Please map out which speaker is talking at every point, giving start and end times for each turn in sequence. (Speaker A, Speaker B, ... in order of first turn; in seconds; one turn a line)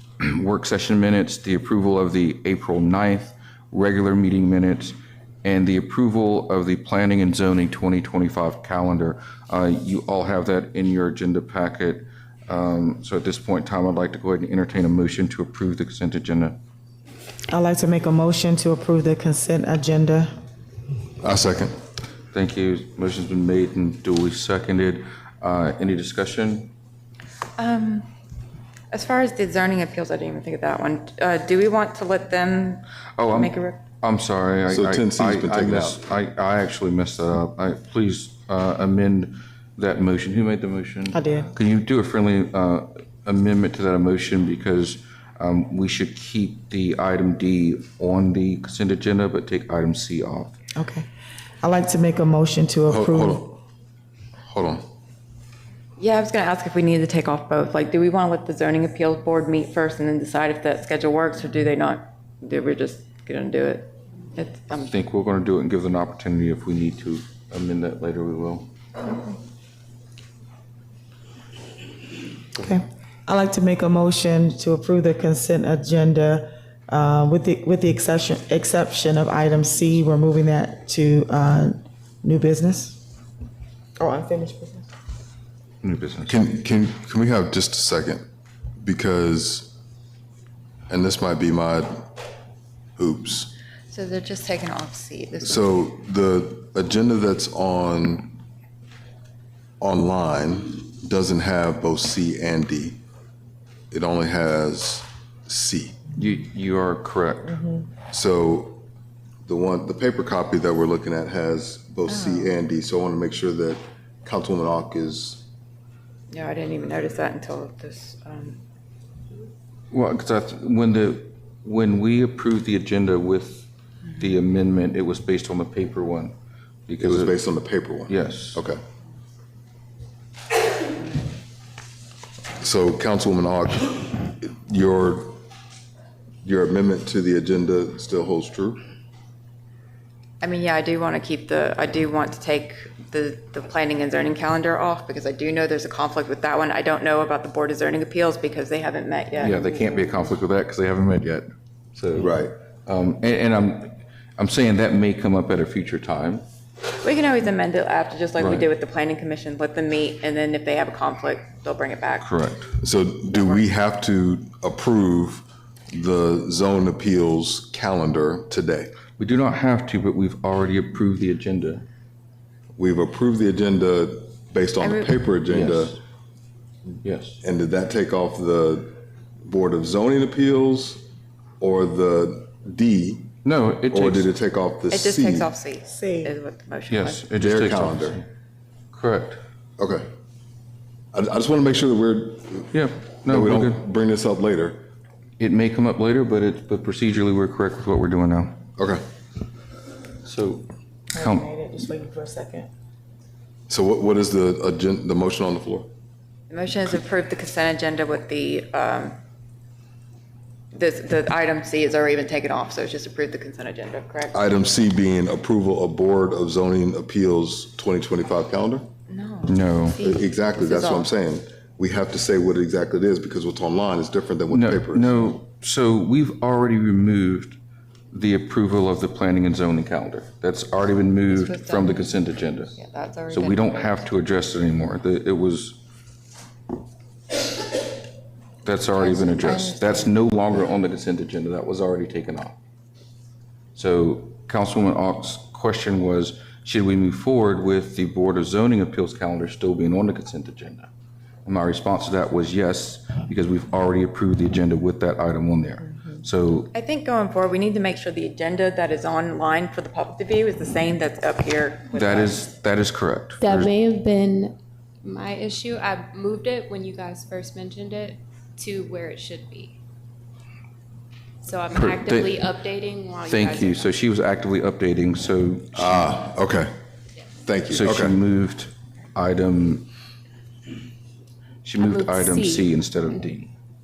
Speaker A: 0.2-16.6
Speaker B: 17.5-20.3
Speaker C: 21.2-21.7
Speaker A: 22.3-26.7
Speaker D: 27.6-28.1
Speaker D: 28.9-33.8
Speaker A: 33.2-50.5
Speaker C: 34.7-36.0
Speaker B: 41.1-41.5
Speaker B: 50.8-51.0
Speaker B: 51.6-53.5
Speaker C: 52.9-53.6
Speaker C: 54.5-54.8
Speaker D: 56.0-64.9
Speaker A: 64.8-68.7
Speaker B: 72.6-83.0
Speaker B: 84.0-84.9
Speaker A: 85.8-86.5
Speaker C: 86.2-88.2
Speaker C: 88.8-89.7
Speaker C: 90.9-92.0
Speaker C: 93.0-93.5
Speaker D: 93.9-95.8
Speaker C: 95.4-98.3
Speaker C: 99.8-103.0
Speaker C: 103.9-106.0
Speaker A: 106.2-107.6
Speaker C: 108.1-108.8
Speaker C: 109.5-115.4
Speaker D: 112.1-112.6
Speaker D: 116.3-118.6
Speaker A: 119.9-126.3
Speaker A: 126.9-127.4
Speaker C: 127.0-128.8
Speaker A: 128.1-128.6
Speaker C: 132.6-135.3
Speaker C: 136.4-138.8
Speaker D: 140.4-150.2
Speaker A: 149.4-156.4
Speaker C: 152.2-152.5
Speaker D: 157.0-162.3
Speaker A: 158.4-158.7
Speaker A: 162.2-162.7
Speaker C: 162.8-168.9
Speaker D: 163.2-163.7
Speaker A: 169.2-171.8
Speaker C: 172.8-176.0
Speaker D: 174.8-175.2
Speaker A: 175.5-176.0
Speaker A: 177.0-177.4
Speaker C: 177.4-178.9
Speaker C: 179.4-181.0
Speaker C: 181.6-183.3
Speaker A: 183.4-184.3
Speaker C: 183.9-185.5
Speaker D: 184.9-187.3
Speaker B: 185.9-186.3
Speaker A: 186.9-188.2
Speaker C: 187.3-188.2
Speaker A: 188.9-189.4
Speaker C: 189.8-190.1
Speaker C: 191.1-192.7
Speaker A: 192.7-193.8
Speaker C: 193.2-194.8
Speaker A: 195.4-198.6
Speaker C: 198.8-199.0
Speaker A: 200.2-201.4
Speaker B: 201.1-202.7
Speaker C: 203.7-205.9
Speaker D: 206.5-209.2
Speaker D: 210.7-214.3
Speaker C: 214.3-218.9
Speaker D: 219.1-221.1
Speaker A: 219.5-220.0
Speaker C: 220.0-225.4
Speaker A: 224.5-227.6
Speaker A: 228.1-232.7
Speaker D: 231.3-232.1
Speaker D: 232.7-234.0
Speaker A: 233.3-235.8
Speaker A: 238.6-242.6
Speaker D: 238.9-240.1
Speaker A: 243.7-250.9
Speaker A: 251.4-256.7
Speaker D: 256.7-262.5
Speaker A: 261.9-263.7
Speaker E: 263.4-269.8
Speaker E: 271.4-274.0
Speaker A: 271.7-272.5
Speaker A: 273.3-276.3
Speaker C: 275.7-276.7
Speaker C: 277.4-278.2
Speaker A: 277.7-279.9
Speaker A: 281.6-283.5
Speaker E: 281.8-282.7